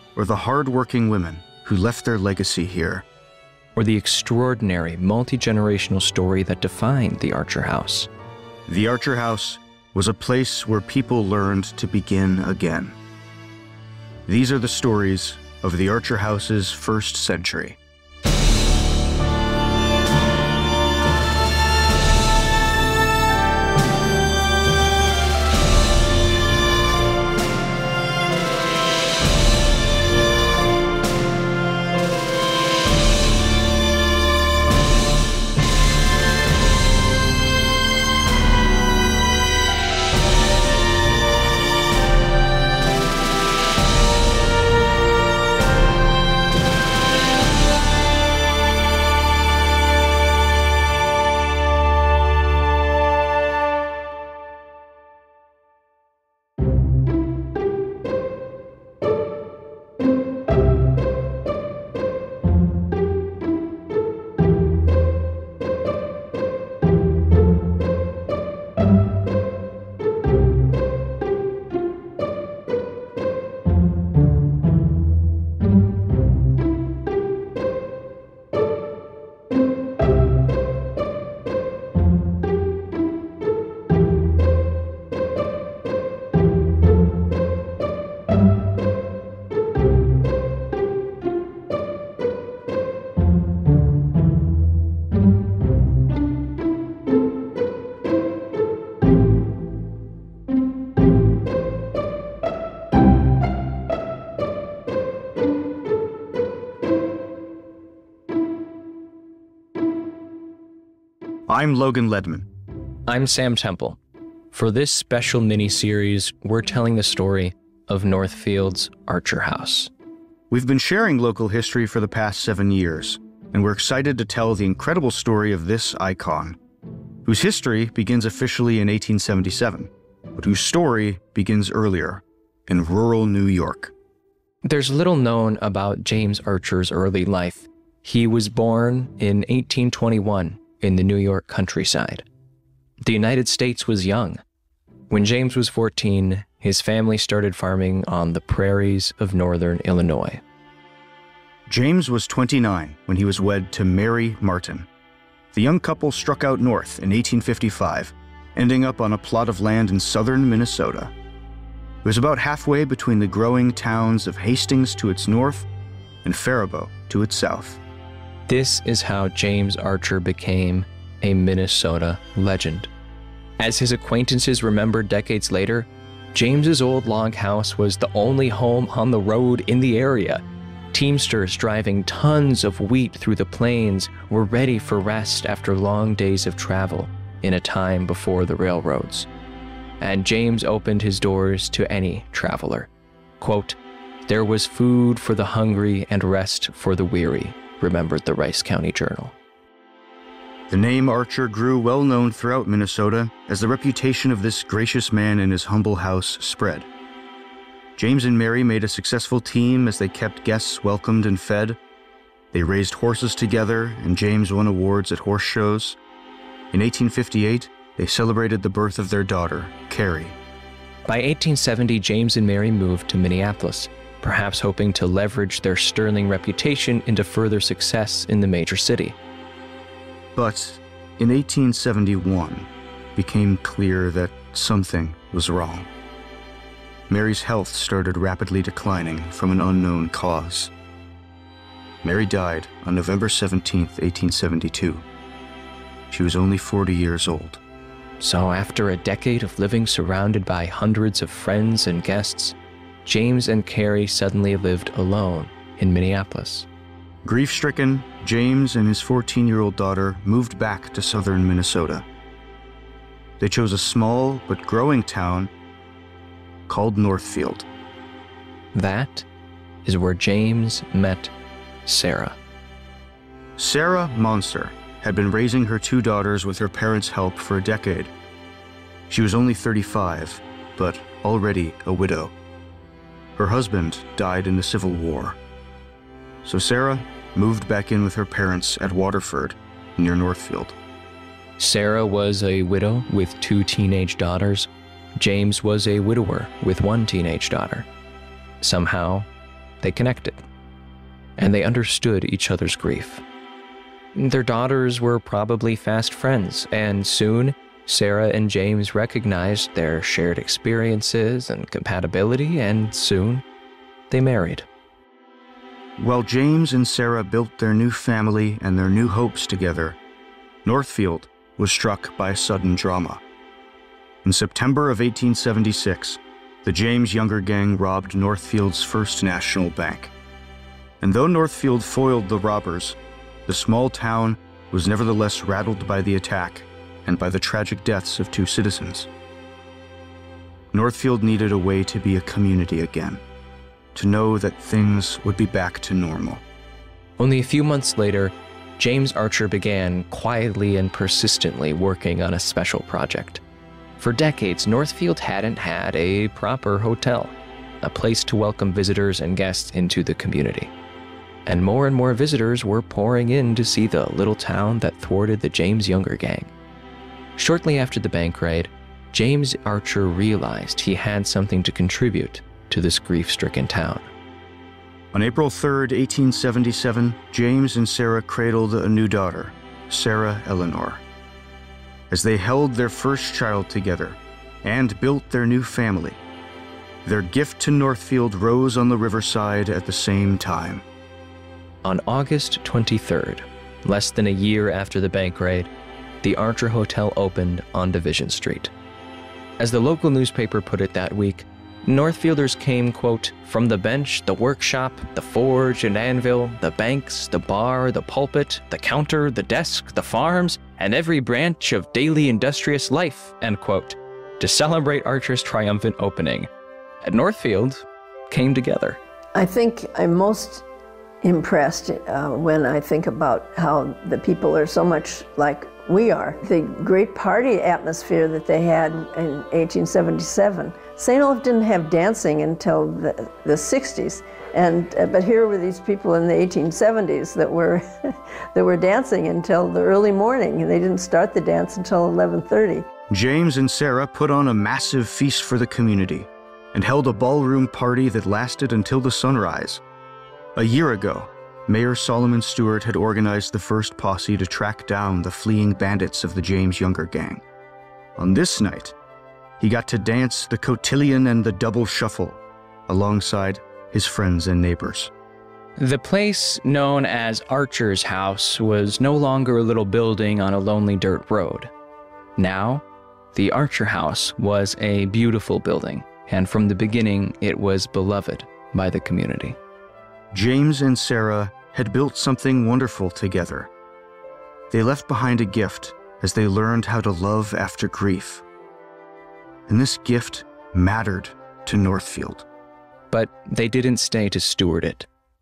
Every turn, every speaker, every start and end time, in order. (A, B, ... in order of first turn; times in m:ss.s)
0:00.2-0:03.0 A
0:03.8-0:08.1 B
0:08.7-0:13.0 A
0:14.2-0:17.8 A
1:51.5-1:52.5 A
1:53.1-1:54.0 B
1:54.5-1:59.9 B
2:00.5-2:06.6 A
2:07.2-2:13.9 A
2:14.6-2:22.2 B
2:23.0-2:24.4 B
2:25.1-2:30.4 B
2:31.7-2:34.9 A
2:35.5-2:41.1 A
2:42.0-2:45.7 A
2:46.2-2:47.8 A
2:48.5-2:52.9 B
2:53.6-3:09.3 B
3:10.0-3:19.4 B
3:20.7-3:26.9 A
3:28.0-3:31.8 A
3:32.5-3:36.0 A
3:36.7-3:40.4 A
3:41.0-3:49.2 B
3:50.4-3:55.9 A
3:57.1-4:00.7 A
4:02.0-4:05.0 A
4:06.1-4:07.6 A
4:08.2-4:16.7 B
4:17.2-4:22.0 A
4:23.4-4:25.5 A
4:26.7-4:27.6 A
4:28.7-4:29.2 B
4:29.8-4:31.3 B
4:31.8-4:32.4 B
4:33.6-4:38.1 A
4:39.1-4:42.3 A
4:43.4-4:45.4 A
4:46.4-4:50.8 A
4:51.6-4:57.9 B
4:58.6-4:59.3 B
4:59.8-5:00.4 B
5:01.4-5:03.2 B
5:04.1-5:13.4 B
5:14.1-5:14.7 B
5:16.0-5:20.0 A
5:20.6-5:23.2 A
5:24.2-5:30.1 A
5:31.0-5:39.1 A
5:40.7-5:43.2 A
5:43.9-5:46.4 A
5:47.2-5:53.4 B
5:54.0-6:00.7 B
6:01.4-6:06.5 B
6:07.4-6:14.1 B
6:15.1-6:21.0 A
6:22.1-6:26.2 A
6:27.0-6:30.8 A
6:31.8-6:35.7 B
6:36.2-6:38.7 B
6:39.6-6:56.5 B
6:57.0-6:59.0 B
6:59.3-7:00.6 C
7:01.2-7:22.9 C
7:23.1-7:29.8 A
7:30.5-7:37.4 A
7:38.2-7:38.9 A
7:39.6-7:45.1 A
7:45.8-7:51.7 B
7:52.4-7:59.6 B
8:00.3-8:03.7 A
8:04.7-8:08.4 A
8:09.7-8:12.4 A
8:13.1-8:15.1 B